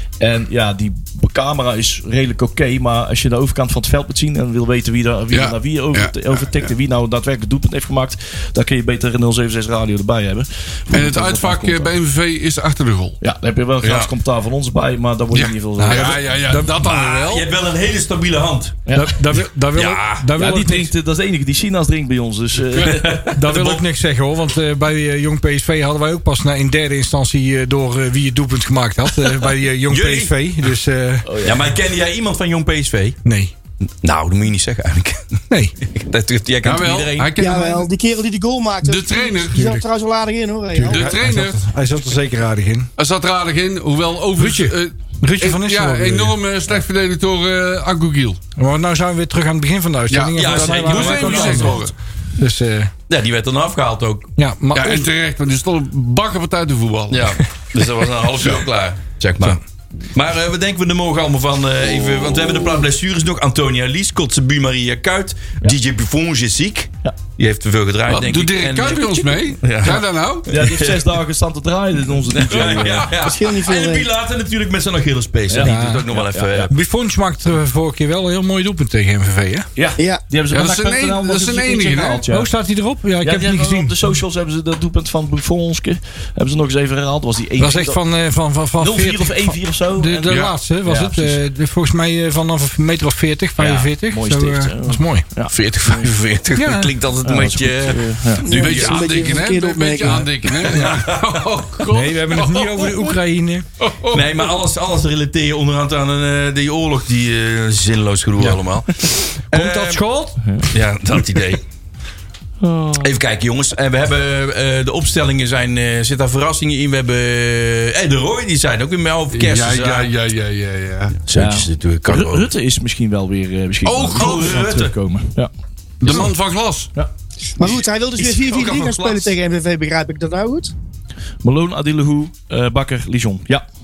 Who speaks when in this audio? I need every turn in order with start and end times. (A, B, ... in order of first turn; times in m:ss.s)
0:00.2-0:11.9 A
0:05.3-0:06.7 B
0:10.9-0:13.2 B
0:13.2-0:16.2 A
0:13.8-0:14.1 C
0:15.3-0:17.5 B
0:15.8-0:16.9 D
0:16.8-0:18.8 C
0:18.8-0:19.2 A
0:18.9-0:20.9 D
0:19.7-0:20.3 C
0:20.4-0:23.4 A
0:22.8-0:23.8 C
0:23.3-0:31.3 D
0:29.9-0:30.3 C
0:31.2-0:31.6 A
0:31.4-0:33.2 C
0:33.2-0:33.5 D
0:34.0-0:37.3 C
0:35.5-0:35.8 D
0:36.6-0:37.9 B
0:37.4-0:41.1 E
0:38.8-0:39.8 B
0:40.7-0:42.9 D
0:40.8-0:41.6 B
0:43.0-0:48.4 B
0:44.4-0:46.4 D
0:48.6-0:52.9 D
0:50.1-0:51.9 B
0:50.3-0:51.9 C
0:53.1-0:54.3 C
0:54.4-0:55.1 D
0:54.7-0:57.4 B
0:57.1-0:59.6 C
0:58.4-0:58.6 B
1:00.1-1:11.1 C
1:01.9-1:02.9 A
1:08.1-1:10.5 B
1:10.5-1:13.1 A
1:12.3-1:16.7 C
1:13.1-1:14.1 E
1:15.5-1:16.7 A
1:15.6-1:16.1 D
1:16.7-1:19.7 D
1:19.8-1:22.5 A
1:20.5-1:22.2 B
1:22.3-1:24.0 D
1:23.2-1:28.0 A
1:27.6-1:35.3 D
1:28.8-1:31.4 A
1:30.3-1:30.6 B
1:33.6-1:36.1 A
1:35.5-1:39.1 C
1:36.6-1:36.9 D
1:37.2-1:38.5 A
1:38.4-1:40.3 E
1:38.5-1:43.2 B
1:40.5-1:41.5 C
1:40.6-1:41.0 D
1:41.9-1:43.7 D
1:43.8-1:44.5 B
1:44.1-1:50.0 C
1:48.4-1:49.1 A
1:49.5-1:50.4 D
1:50.4-1:50.7 A
1:50.7-1:51.6 C
1:52.6-1:53.2 A
1:53.0-2:00.1 C
1:59.3-2:01.2 B
2:01.2-2:02.5 C
2:01.3-2:05.5 A
2:03.8-2:04.6 B
2:04.2-2:04.9 C
2:06.0-2:06.9 B
2:06.0-2:06.3 A
2:07.6-2:10.7 E
2:07.6-2:09.3 C
2:11.4-2:13.6 A